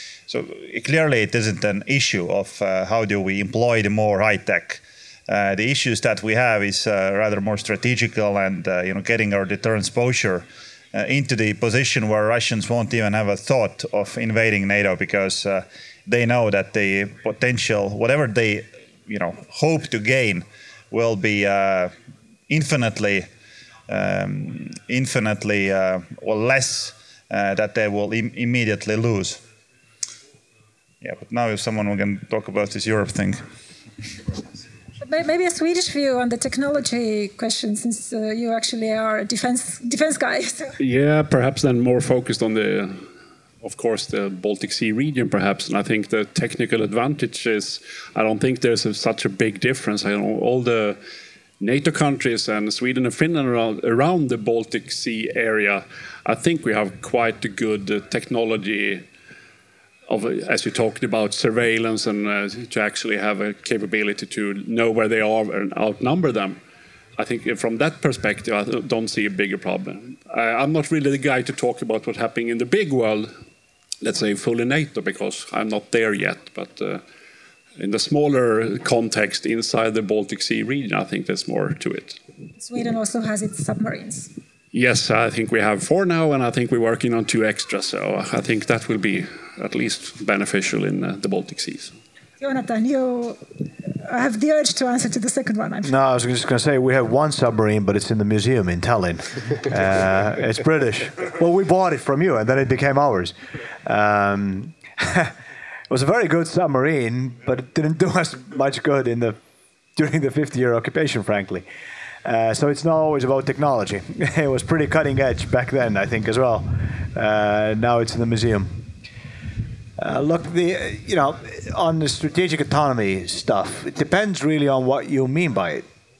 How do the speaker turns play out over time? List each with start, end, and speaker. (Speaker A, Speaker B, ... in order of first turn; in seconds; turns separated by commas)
Speaker A: 0.3-21.9, Speaker A: 22.5-23.3, Speaker A: 23.9-29.4, Speaker A: 31.0-33.4, Speaker B: 35.0-40.7, Speaker C: 40.8-43.1, Speaker C: 43.6-51.0, Speaker C: 51.6-59.0, Speaker C: 60.1-66.6, Speaker C: 67.2-73.3, Speaker C: 74.0-77.0, Speaker C: 77.8-82.2, Speaker B: 82.6-84.3, Speaker C: 84.7-91.9, Speaker B: 92.4-93.4, Speaker B: 94.0-95.9, Speaker D: 95.8-105.3, Speaker D: 105.9-109.4, Speaker D: 110.0-111.7, Speaker D: 112.2-118.9, Speaker D: 120.0-125.8